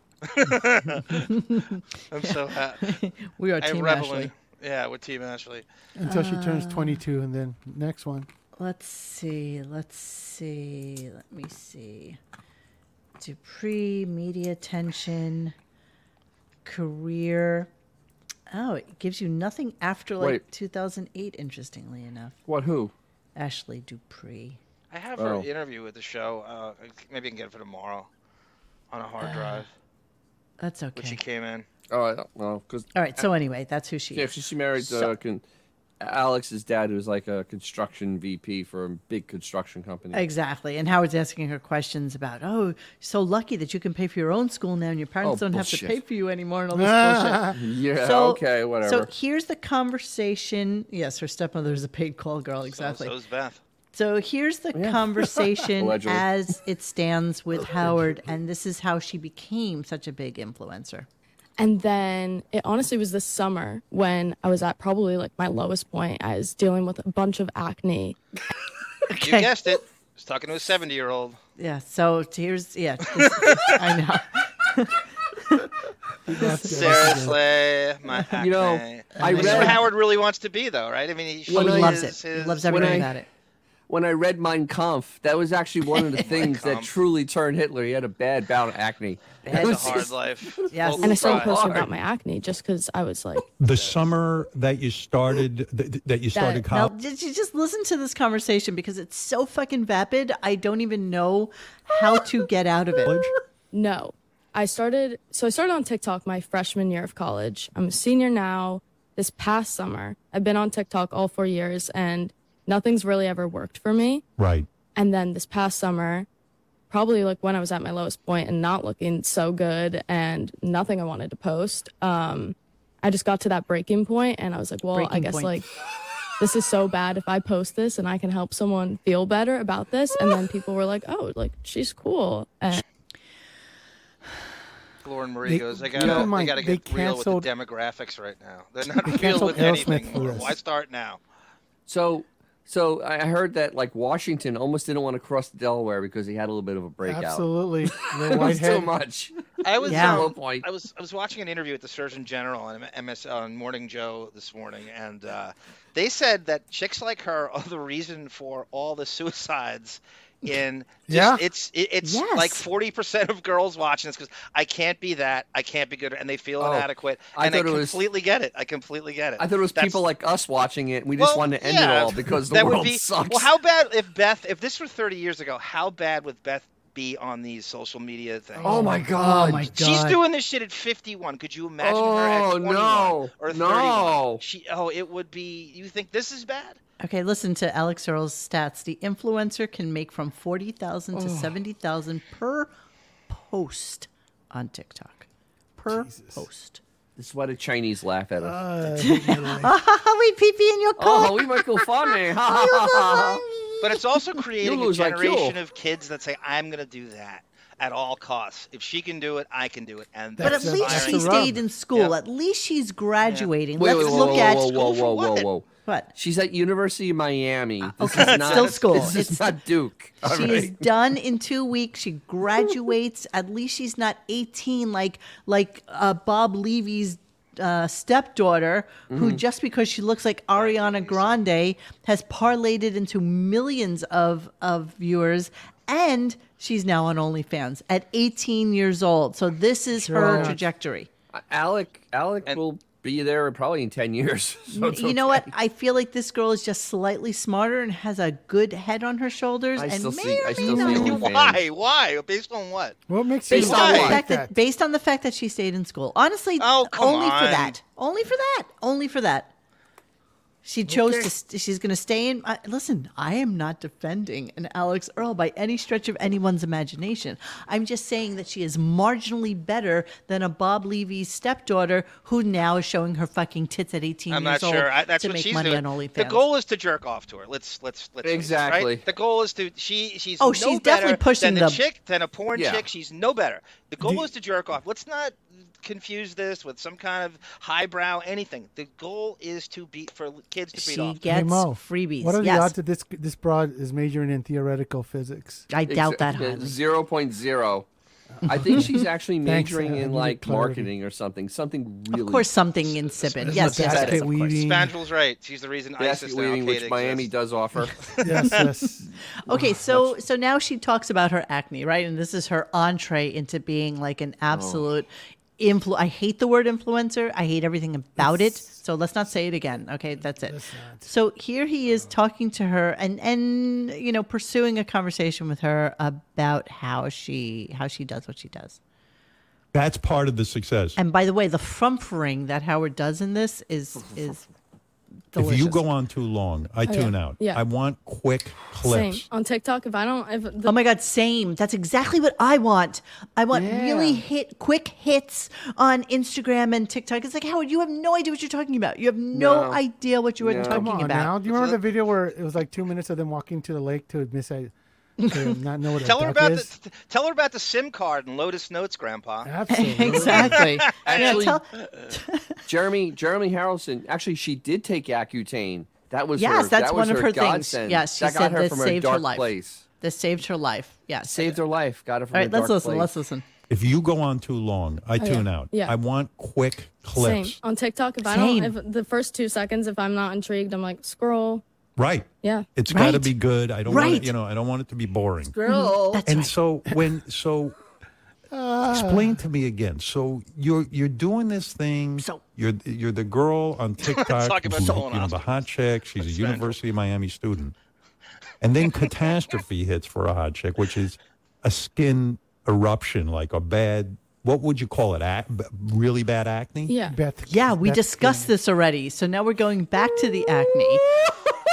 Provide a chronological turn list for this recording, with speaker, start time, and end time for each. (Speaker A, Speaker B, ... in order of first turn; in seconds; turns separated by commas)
Speaker A: 0.2-1.3, Speaker B: 1.1-4.3, Speaker A: 2.1-2.9, Speaker A: 3.6-5.7, Speaker C: 6.0-8.3, Speaker B: 6.1-7.0, Speaker B: 8.6-12.2, Speaker B: 13.2-15.5, Speaker B: 16.6-17.7, Speaker B: 18.5-22.4, Speaker D: 22.5-22.9, Speaker B: 23.4-24.6, Speaker A: 24.9-28.1, Speaker D: 25.2-25.5, Speaker A: 28.9-29.7, Speaker B: 29.2-29.7, Speaker B: 30.6-31.2, Speaker A: 31.0-31.7, Speaker D: 31.9-33.2, Speaker B: 33.0-35.1, Speaker D: 34.1-35.4, Speaker D: 36.0-40.2, Speaker B: 40.1-53.1, Speaker D: 45.2-46.0, Speaker C: 46.7-47.6, Speaker D: 47.5-49.1, Speaker A: 52.7-53.6, Speaker B: 53.9-61.1, Speaker D: 54.7-56.3, Speaker E: 61.6-68.2, Speaker B: 69.1-69.5, Speaker A: 69.2-71.4, Speaker B: 71.6-75.7, Speaker A: 73.2-73.7, Speaker C: 76.3-77.4, Speaker B: 76.3-77.3, Speaker A: 76.6-83.1, Speaker D: 78.4-79.8, Speaker B: 79.2-79.8, Speaker C: 79.2-79.6, Speaker D: 81.5-82.1, Speaker B: 81.5-83.3, Speaker D: 82.7-83.1, Speaker D: 83.9-91.9, Speaker A: 86.2-86.9, Speaker B: 89.4-90.1, Speaker A: 89.5-91.6, Speaker B: 90.7-91.4, Speaker E: 91.0-93.5, Speaker F: 93.6-96.9, Speaker A: 93.7-94.0, Speaker E: 96.3-96.6, Speaker B: 96.7-103.3, Speaker F: 103.0-103.3, Speaker E: 103.7-114.2, Speaker F: 114.4-114.7, Speaker E: 115.0-116.3, Speaker E: 116.9-125.7, Speaker B: 124.9-125.6, Speaker E: 126.4-132.8, Speaker A: 135.0-141.2, Speaker C: 135.4-137.5, Speaker D: 136.0-136.3, Speaker C: 139.0-140.6, Speaker D: 141.9-147.5, Speaker C: 147.0-148.9, Speaker D: 148.0-149.3, Speaker A: 149.6-170.0, Speaker D: 149.8-150.7, Speaker B: 149.9-150.3, Speaker C: 161.1-161.4, Speaker B: 162.0-162.7, Speaker D: 166.6-168.0, Speaker D: 169.4-173.5, Speaker A: 171.2-178.8, Speaker C: 178.6-179.1, Speaker D: 178.6-179.7, Speaker B: 178.6-180.2, Speaker A: 179.7-186.8, Speaker D: 181.8-184.4, Speaker B: 187.0-192.7, Speaker C: 191.1-191.5, Speaker B: 193.3-195.3, Speaker B: 195.8-196.8, Speaker C: 195.9-196.4, Speaker D: 197.2-198.6, Speaker C: 198.4-199.8, Speaker B: 199.0-201.8, Speaker D: 201.0-203.4, Speaker B: 202.5-204.0, Speaker A: 203.8-212.1, Speaker D: 204.6-205.6, Speaker C: 210.4-211.6, Speaker B: 210.4-214.7, Speaker A: 213.2-215.5, Speaker D: 213.8-220.8, Speaker B: 218.0-219.6, Speaker A: 218.0-219.2, Speaker B: 220.2-241.1, Speaker D: 229.1-229.4, Speaker A: 230.5-231.4, Speaker C: 240.0-240.6, Speaker D: 240.2-240.6, Speaker D: 241.3-245.5, Speaker B: 244.7-251.3, Speaker D: 249.8-251.6, Speaker A: 250.6-253.0, Speaker C: 253.1-254.5, Speaker D: 253.5-254.2, Speaker B: 253.5-259.5, Speaker A: 253.5-254.2, Speaker A: 256.6-257.8, Speaker B: 260.6-276.4, Speaker C: 260.9-261.3, Speaker A: 274.3-291.2, Speaker D: 278.2-279.1, Speaker B: 280.4-281.8, Speaker D: 282.5-282.9, Speaker C: 284.0-284.3, Speaker B: 290.7-292.7, Speaker C: 291.3-295.7, Speaker B: 295.7-296.8, Speaker D: 295.9-297.9, Speaker C: 298.4-300.9, Speaker D: 298.5-304.3, Speaker B: 302.1-304.4, Speaker C: 303.4-304.9, Speaker A: 303.9-307.3, Speaker D: 306.0-308.1, Speaker C: 308.2-310.1, Speaker A: 308.3-308.6, Speaker B: 309.5-328.8, Speaker D: 314.5-314.9, Speaker C: 318.2-318.7, Speaker C: 320.2-321.1, Speaker F: 329.7-331.0, Speaker B: 331.0-334.4, Speaker B: 335.3-335.8, Speaker F: 335.4-339.3, Speaker E: 336.9-337.6, Speaker E: 338.8-340.7, Speaker B: 340.6-351.4, Speaker C: 343.5-344.2, Speaker D: 349.3-349.8, Speaker D: 350.4-350.9, Speaker C: 350.5-356.7, Speaker A: 351.5-351.8, Speaker B: 355.2-355.5, Speaker A: 356.0-359.5, Speaker C: 359.4-360.7, Speaker B: 359.7-362.6, Speaker A: 360.2-361.5, Speaker D: 361.0-361.6, Speaker D: 362.7-369.8, Speaker B: 366.4-371.6, Speaker D: 371.3-373.1, Speaker B: 372.3-373.5, Speaker F: 373.7-377.6, Speaker E: 375.2-375.9, Speaker E: 377.1-381.6, Speaker B: 378.2-378.7, Speaker F: 382.0-385.6, Speaker B: 382.9-383.3, Speaker B: 383.9-384.3, Speaker D: 385.6-386.2, Speaker B: 385.8-386.5, Speaker F: 386.2-387.8, Speaker C: 388.5-389.4, Speaker F: 388.9-397.7, Speaker A: 394.0-395.7, Speaker A: 396.2-396.8, Speaker F: 398.6-406.9, Speaker E: 406.9-407.1, Speaker C: 407.1-408.5, Speaker B: 407.5-411.0